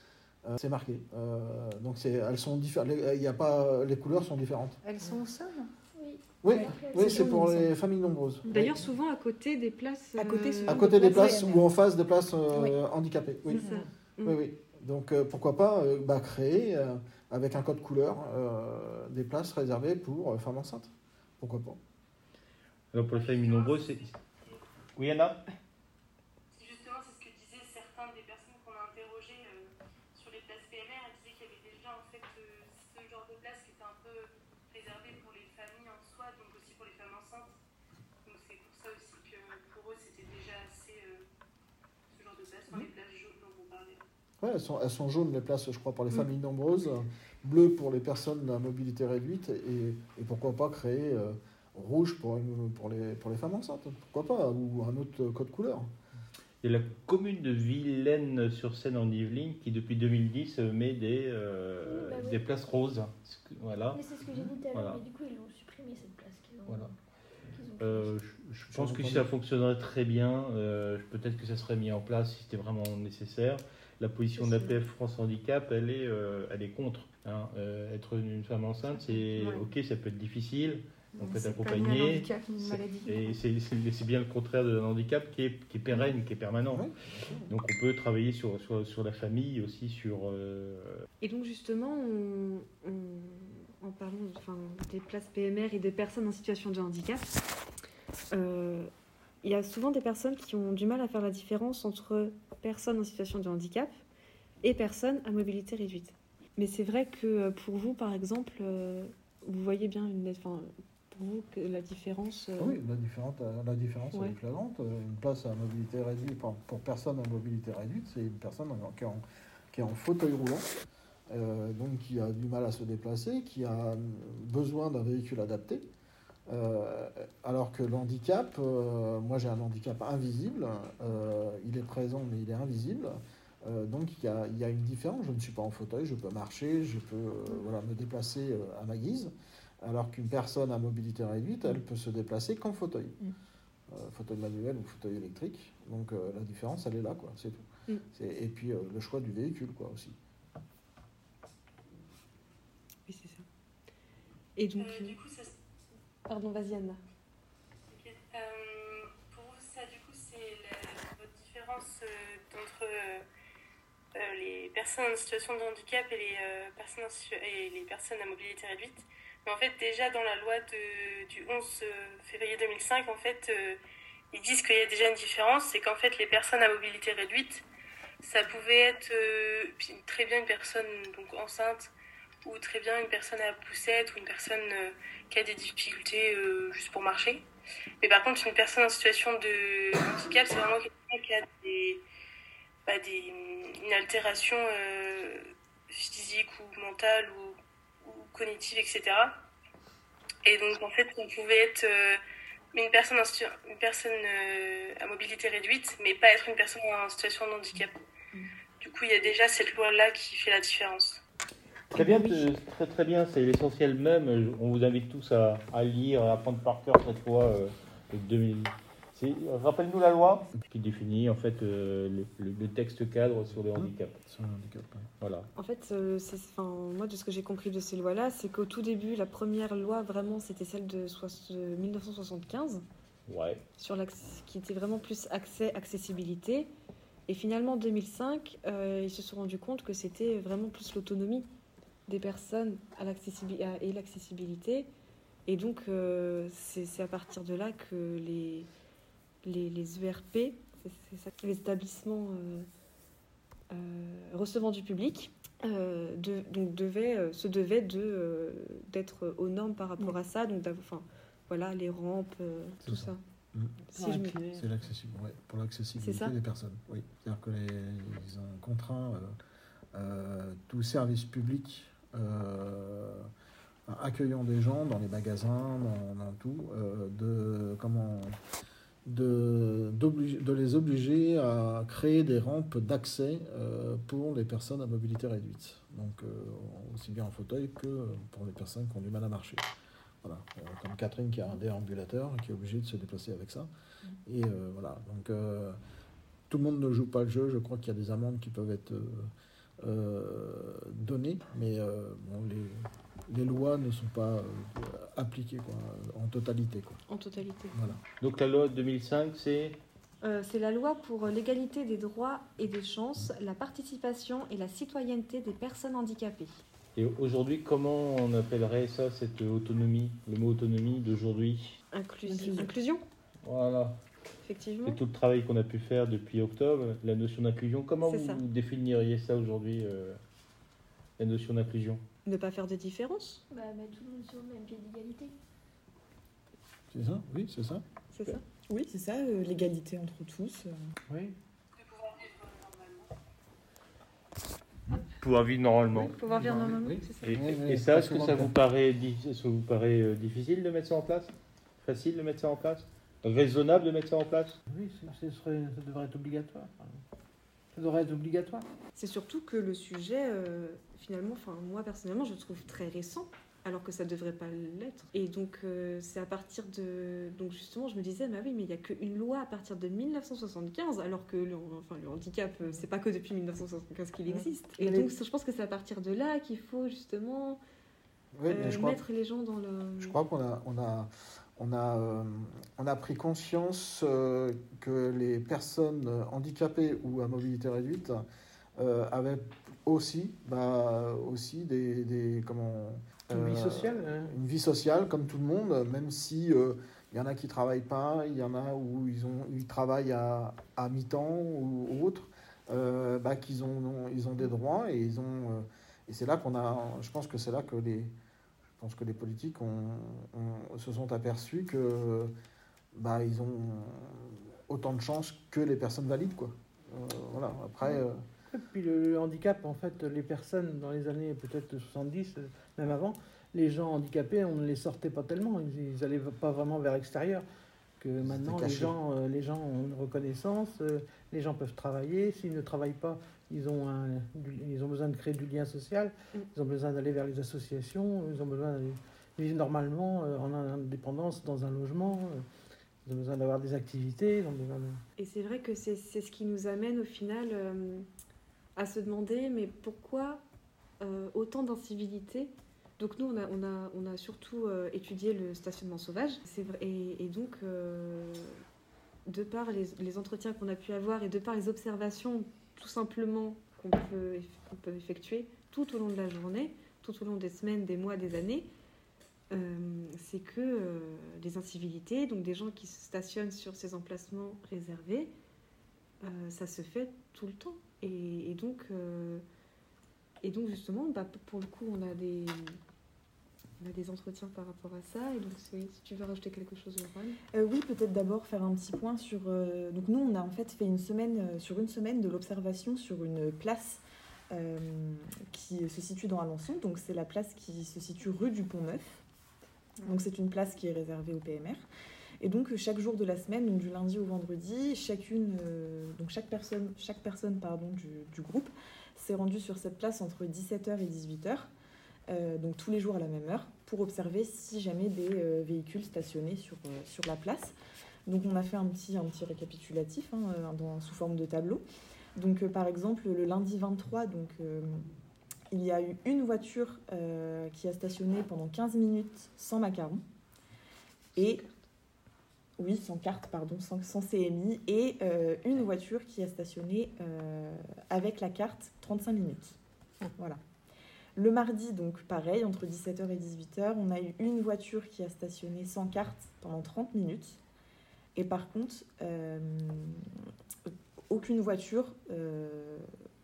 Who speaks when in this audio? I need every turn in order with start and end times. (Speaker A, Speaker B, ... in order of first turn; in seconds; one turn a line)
Speaker A: 0.5-4.8
Speaker B: 4.8-5.7
Speaker C: 5.9-7.3
Speaker A: 6.4-8.7
Speaker D: 6.5-7.7
Speaker E: 6.9-7.4
Speaker D: 8.4-11.6
Speaker E: 10.2-11.6
Speaker A: 10.7-13.6
Speaker D: 13.5-14.4
Speaker A: 14.2-21.8
Speaker F: 22.9-24.1
Speaker G: 23.1-24.6
Speaker F: 24.9-25.4
Speaker G: 26.5-37.5
Speaker G: 38.2-41.2
Speaker G: 42.1-44.0
Speaker A: 44.4-55.9
Speaker F: 56.6-64.0
Speaker C: 61.9-62.4
Speaker C: 63.9-66.9
Speaker F: 64.7-65.0
Speaker C: 67.5-68.1
Speaker F: 67.8-86.8
Speaker A: 68.7-69.3
Speaker B: 74.4-74.8
Speaker B: 79.0-79.7
Speaker B: 81.1-83.4
Speaker A: 86.7-87.5
Speaker F: 87.5-91.0
Speaker D: 91.2-97.3
Speaker D: 98.3-98.9
Speaker D: 99.4-104.0
Speaker D: 104.6-112.8
Speaker A: 112.6-120.7
Speaker A: 121.3-125.9
Speaker A: 126.5-143.2
Speaker A: 143.9-150.2
Speaker D: 153.1-153.4
Speaker D: 154.6-155.2
Speaker G: 154.8-155.5
Speaker D: 156.3-157.0
Speaker G: 157.9-163.2
Speaker G: 164.1-173.8
Speaker G: 174.3-177.6
Speaker G: 178.2-181.9
Speaker G: 182.4-187.4
Speaker G: 188.0-192.0
Speaker G: 192.9-199.4
Speaker G: 200.4-202.2
Speaker G: 202.7-207.9
Speaker G: 208.8-211.2
Speaker F: 211.9-224.2
Speaker A: 223.7-225.1
Speaker F: 225.2-225.5
Speaker D: 225.6-232.8
Speaker F: 233.3-233.6
Speaker D: 233.8-236.7
Speaker D: 237.3-241.5
Speaker D: 242.1-244.9
Speaker D: 245.5-248.7
Speaker D: 249.4-252.7
Speaker D: 253.7-263.2
Speaker A: 262.8-263.7
Speaker D: 263.9-264.4
Speaker H: 263.9-264.7
Speaker A: 264.5-269.4
Speaker D: 266.0-266.3
Speaker A: 269.9-273.3
Speaker A: 273.9-278.4
Speaker A: 279.0-289.7
Speaker A: 290.2-293.7
Speaker A: 294.2-295.8
Speaker A: 296.5-307.0
Speaker D: 307.1-307.9
Speaker A: 307.7-308.0
Speaker F: 308.2-309.8
Speaker D: 310.2-316.6
Speaker F: 316.9-321.8
Speaker D: 321.9-323.0
Speaker H: 322.2-322.7
Speaker F: 323.4-324.0
Speaker D: 324.4-325.0
Speaker F: 324.8-330.2
Speaker D: 328.0-328.4
Speaker F: 331.2-332.0
Speaker D: 332.2-333.4
Speaker C: 333.5-335.3
Speaker A: 336.9-337.8
Speaker D: 338.1-338.4
Speaker E: 338.7-340.8
Speaker H: 341.1-341.4
Speaker G: 341.7-343.1
Speaker F: 345.0-346.1
Speaker D: 346.0-347.4
Speaker A: 346.3-348.5
Speaker F: 347.2-354.6
Speaker H: 354.7-357.0
Speaker H: 357.7-358.7
Speaker D: 358.9-377.6
Speaker H: 374.3-375.1
Speaker A: 378.4-379.0
Speaker D: 378.5-380.1
Speaker A: 380.0-388.2
Speaker A: 388.8-408.1
Speaker H: 393.3-394.4
Speaker A: 408.8-412.3
Speaker A: 412.9-418.2
Speaker H: 418.5-427.4
Speaker H: 428.0-442.4
Speaker A: 428.2-428.9
Speaker H: 443.0-445.0
Speaker D: 445.2-448.1
Speaker D: 448.8-450.4
Speaker D: 451.0-458.6
Speaker D: 459.2-468.7
Speaker D: 469.5-475.3
Speaker D: 476.2-479.4
Speaker D: 480.4-482.8
Speaker D: 483.8-487.4
Speaker E: 487.5-499.2
Speaker E: 500.0-501.8
Speaker E: 502.4-511.7
Speaker E: 512.3-517.7
Speaker E: 518.2-521.8
Speaker E: 522.3-525.1
Speaker E: 525.7-530.2
Speaker E: 531.3-531.6
Speaker E: 532.8-539.8
Speaker E: 541.4-547.6
Speaker E: 548.3-550.2
Speaker E: 551.3-553.1